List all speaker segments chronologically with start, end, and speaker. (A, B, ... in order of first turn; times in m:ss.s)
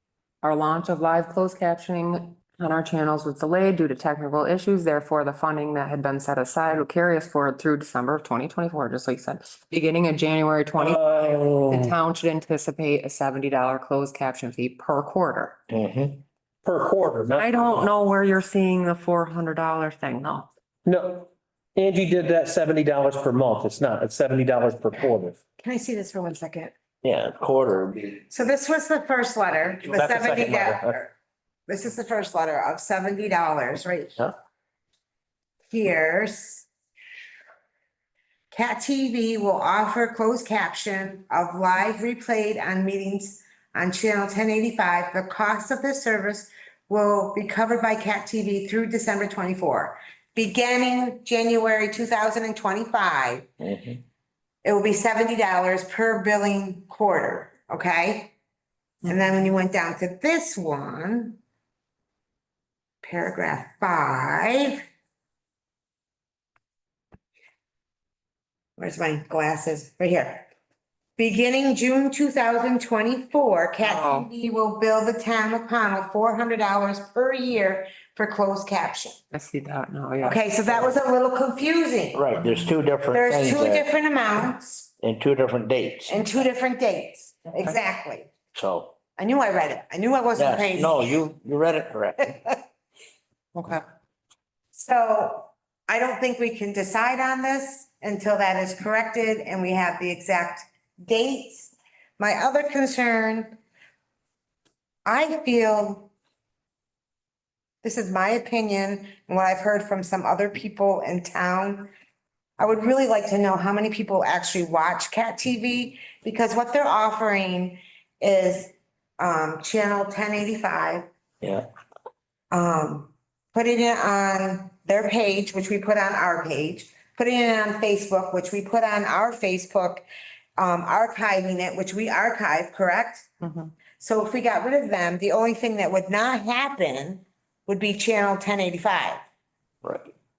0:00.4-0:15.6 A
0:10.8-0:11.9 B
0:15.7-0:16.2 C
0:16.6-0:17.9 B
0:17.4-0:20.5 A
0:20.8-0:25.4 B
0:25.6-0:26.7 D
0:27.0-0:28.3 C
0:28.3-0:31.1 D
0:29.9-0:30.9 B
0:31.7-0:34.2 D
0:35.7-0:36.6 D
0:38.5-0:53.5 D
0:53.6-0:54.0 C
0:54.6-0:58.3 D
0:59.0-1:01.4 D
1:03.0-1:04.9 D
1:08.8-1:10.5 D
1:11.2-1:19.1 D
1:13.8-1:14.3 A
1:19.3-1:21.0 A
1:20.2-1:22.2 D
1:22.1-1:23.9 C
1:23.1-1:24.9 D
1:25.0-1:26.3 C
1:26.1-1:28.3 D
1:28.5-1:29.0 C
1:29.2-1:31.2 D
1:30.4-1:32.4 C
1:33.6-1:33.8 A
1:34.7-1:43.6 D
1:45.0-1:46.1 D
1:47.8-1:51.9 D
1:52.6-2:01.1 D
2:01.4-2:01.7 C
2:02.5-2:10.0 D
2:10.6-2:13.3 D
2:13.4-2:13.7 A
2:14.0-2:19.2 D
2:19.8-2:20.1 C